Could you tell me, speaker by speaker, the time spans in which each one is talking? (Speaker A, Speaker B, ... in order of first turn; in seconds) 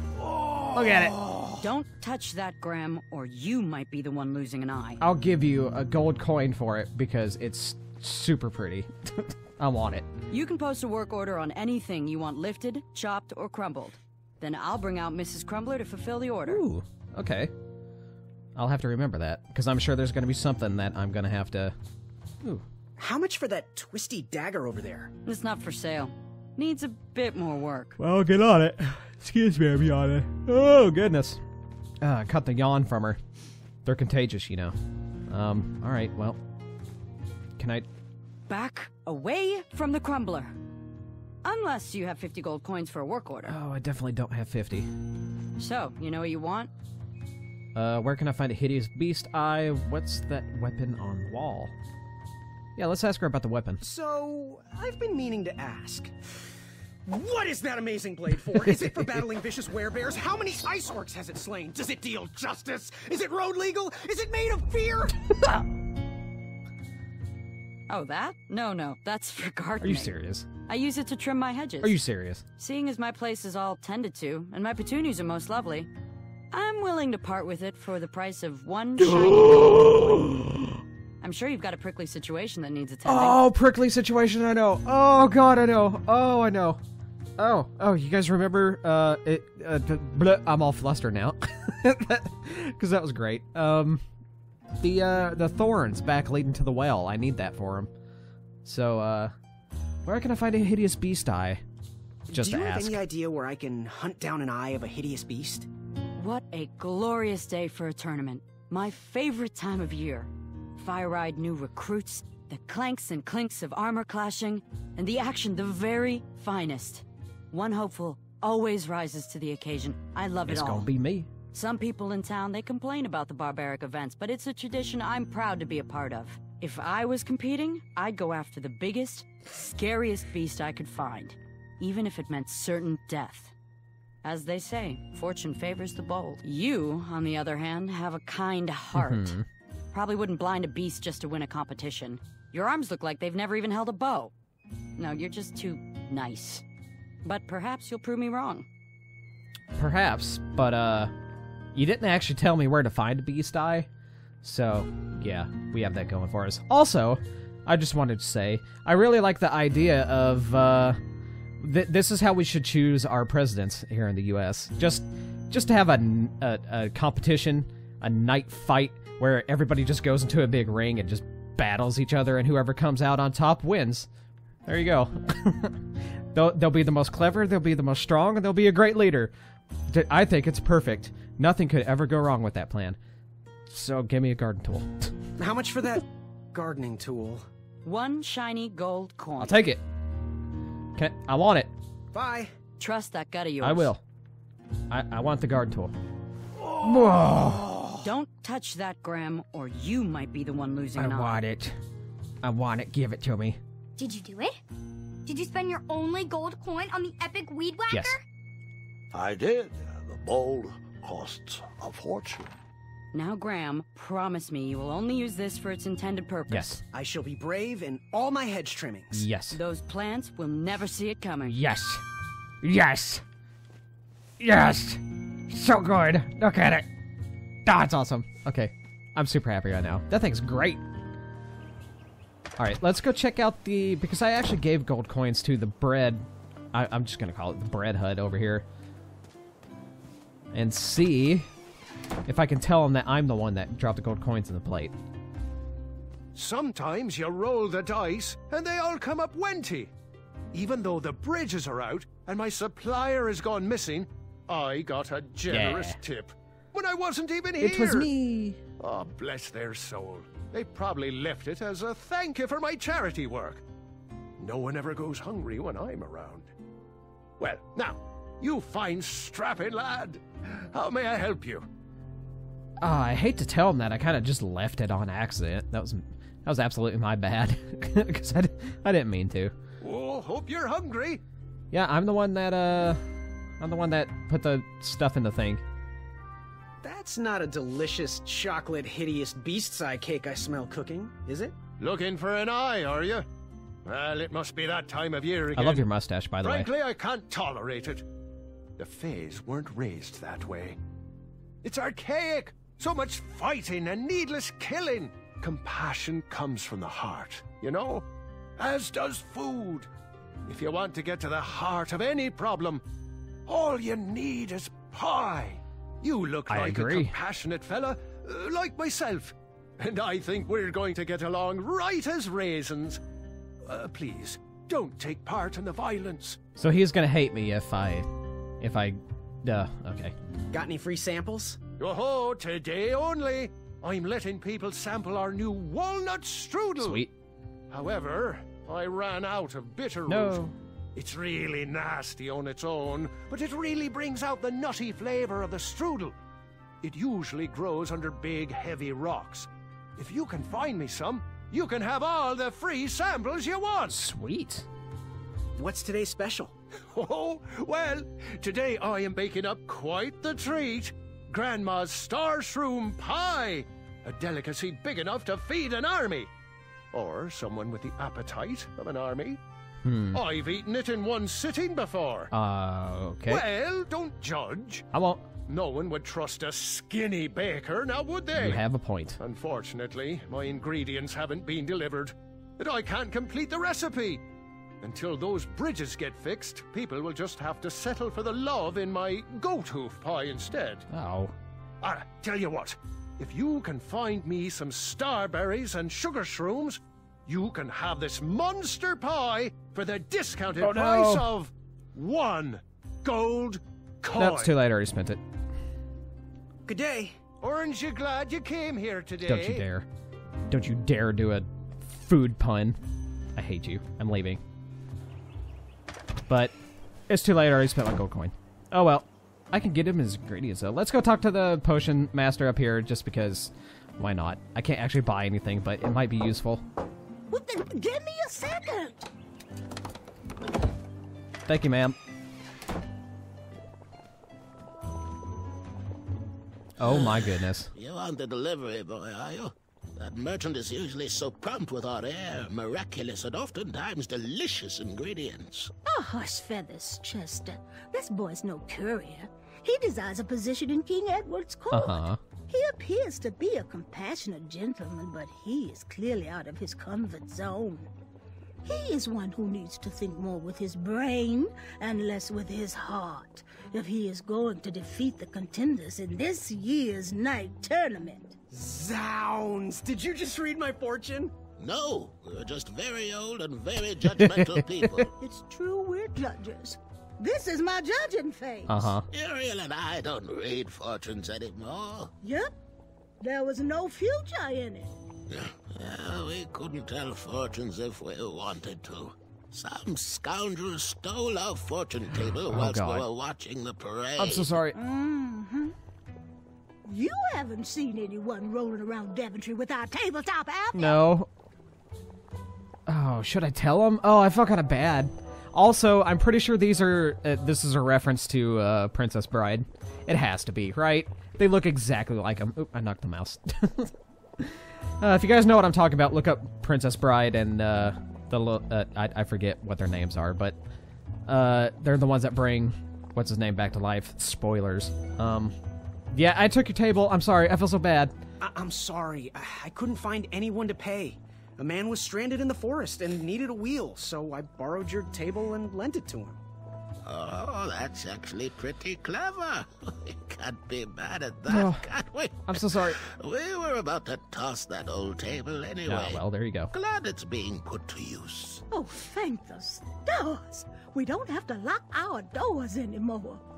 Speaker A: 0.7-1.2, 5.0-10.1, 16.5-17.5, 18.6-21.8, 28.0-31.4, 32.0-33.2, 33.8-34.8, 35.3-36.4, 37.6-37.9, 43.4-44.9, 47.8-51.7, 52.8-53.8, 69.8-70.5, 71.8-72.4, 79.0-80.5, 83.0-86.8, 87.4-94.0, 94.8-97.9, 98.6-99.3, 100.0-101.6, 102.3-103.0, 120.5-121.3, 138.9-139.4, 149.8-151.1, 151.7-153.9, 154.4-161.0, 161.6-174.1, 174.7-179.3, 179.9-183.0, 183.7-185.1, 189.4-189.8, 191.0-191.7, 193.6-194.0, 194.9-195.9, 196.8-197.7, 201.0-201.8, 202.4-203.6, 207.9-208.2, 216.5-216.8, 219.1-219.6, 221.5-222.0, 222.6-223.2, 224.4-226.9, 227.7-230.8, 232.6-238.7, 240.5-241.5, 242.2-244.9, 255.5-256.0, 257.6-258.6, 272.8-279.5, 281.7-283.0, 283.6-285.6, 295.6-296.7, 316.5-317.1, 326.6-330.1, 336.8-337.1, 340.1-340.6, 353.9-354.7, 369.8-370.2, 372.3-373.4, 374.9-375.2, 378.4-379.2, 390.9-391.3, 400.6-401.3, 404.1-405.2, 409.2-409.9, 410.5-412.8, 413.4-414.4, 416.3-416.5, 417.1-426.6, 431.5-432.0, 436.8-437.7, 451.7-452.2, 474.4-475.1, 478.7-479.1, 492.5-493.1, 494.2-494.8, 500.8-501.3, 502.9-520.6, 521.3-525.5, 526.1-528.1, 541.5-541.9, 542.5-543.0, 545.9-546.7
Speaker B: 1.6-5.0, 10.3-16.6, 25.2-28.0, 38.5-40.5, 41.4-43.6, 45.6-46.7, 67.9-72.1, 72.6-75.9, 76.5-80.2, 81.2-83.4, 106.2-120.9, 121.5-133.5, 134.2-139.4, 139.9-144.3, 145.0-146.6, 147.2-148.7, 187.8-189.7, 192.8-193.9, 198.0-201.4, 213.1-216.8, 219.5-221.6
Speaker C: 23.0-25.1, 53.8-56.3, 57.1-65.2, 102.3-105.7, 185.4-187.4, 192.1-192.5, 197.2-197.9, 216.9-219.3, 286.8-291.5, 330.5-331.6, 355.6-356.5, 406.7-407.2, 468.5-471.4, 528.4-536.4
Speaker D: 204.0-204.6, 205.3-208.2
Speaker E: 209.1-212.6
Speaker F: 246.3-249.9, 250.5-258.1, 258.8-263.6, 264.4-266.5, 267.4-271.7, 279.8-281.2, 291.8-293.2, 293.9-295.9, 296.4-298.1, 298.8-300.8, 301.6-308.1, 308.6-309.9, 310.5-312.8, 313.5-323.0, 323.7-326.4, 331.8-337.1, 337.7-340.4, 341.0-346.1, 346.8-354.0, 356.9-366.3, 366.9-369.4, 370.1-372.3, 373.3-374.9, 375.5-378.6, 379.2-384.2, 384.8-390.9, 391.8-404.6, 407.4-409.7
Speaker G: 427.3-429.1, 445.9-457.9, 458.6-468.4, 475.2-478.9, 482.2-482.5, 483.2-484.9, 494.8-495.8, 496.9-501.0, 548.7-553.4
Speaker H: 436.8-445.7, 471.6-475.1, 479.1-482.1, 485.3-494.6, 537.0-548.6